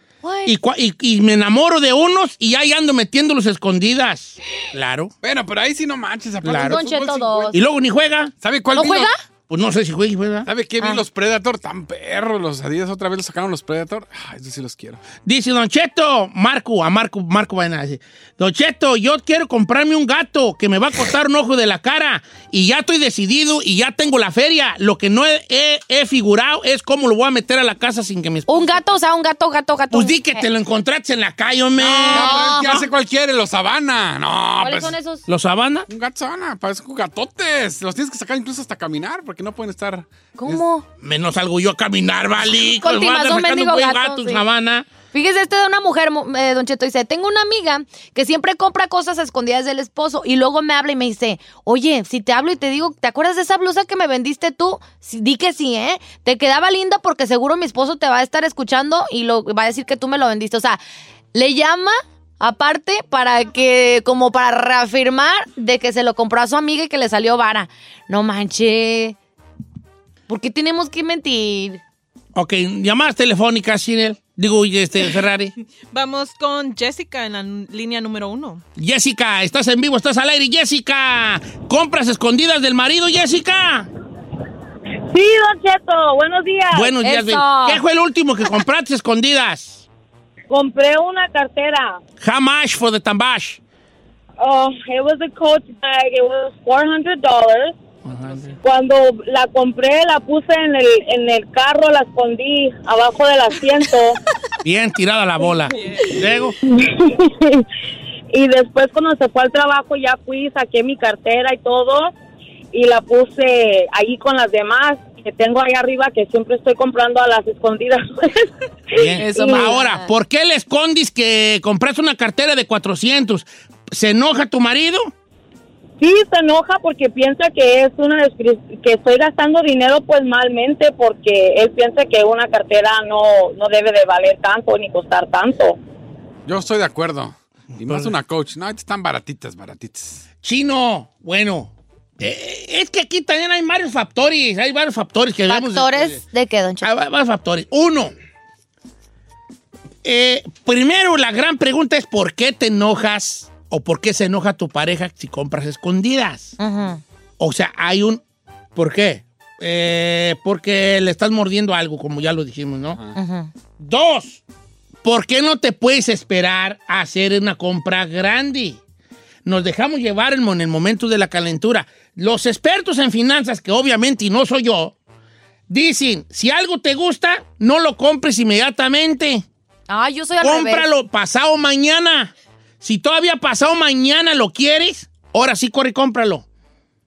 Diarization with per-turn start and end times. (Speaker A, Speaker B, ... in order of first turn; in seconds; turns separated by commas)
Speaker A: 0.2-0.6, Speaker B: 0.5-5.1, Speaker C: 5.2-7.5, Speaker B: 6.4-6.8, Speaker A: 6.5-7.6, Speaker B: 7.5-8.3, Speaker C: 8.4-9.1, Speaker A: 8.7-9.2, Speaker B: 9.5-10.5, Speaker C: 10.5-15.0, Speaker B: 15.2-28.8, Speaker A: 28.5-30.5, Speaker B: 29.9-32.8, Speaker C: 31.8-35.0, Speaker A: 32.1-32.8, Speaker A: 34.6-35.2, Speaker B: 35.3-35.9, Speaker C: 35.9-40.6, Speaker A: 40.4-40.9, Speaker B: 41.0-44.9, Speaker A: 42.8-44.4, Speaker A: 45.1-60.8, Speaker A: 61.3-69.2, Speaker A: 70.3-71.8, Speaker B: 72.3-75.5, Speaker D: 75.9-78.6, Speaker B: 78.8-83.9, Speaker E: 85.1-87.0, Speaker B: 86.7-89.8, Speaker A: 87.0-87.8, Speaker E: 90.5-92.0, Speaker B: 92.2-93.6, Speaker E: 94.4-97.8, Speaker B: 98.0-98.6, Speaker E: 98.6-104.2, Speaker B: 104.6-106.6, Speaker D: 105.7-106.2, Speaker E: 106.7-107.7, Speaker E: 108.3-112.1, Speaker E: 112.7-119.7, Speaker B: 119.0-125.1, Speaker A: 119.2-120.1, Speaker E: 126.0-135.8, Speaker C: 136.5-140.2, Speaker B: 137.8-138.1, Speaker B: 140.4-146.2, Speaker A: 145.5-146.9, Speaker B: 146.8-148.1, Speaker B: 150.0-156.6, Speaker A: 156.6-157.0, Speaker B: 157.4-158.2, Speaker B: 158.8-163.0, Speaker A: 163.2-163.5, Speaker B: 163.8-164.4, Speaker B: 165.0-168.8, Speaker B: 169.4-174.9, Speaker B: 175.7-179.4, Speaker A: 179.9-180.9, Speaker B: 180.4-186.4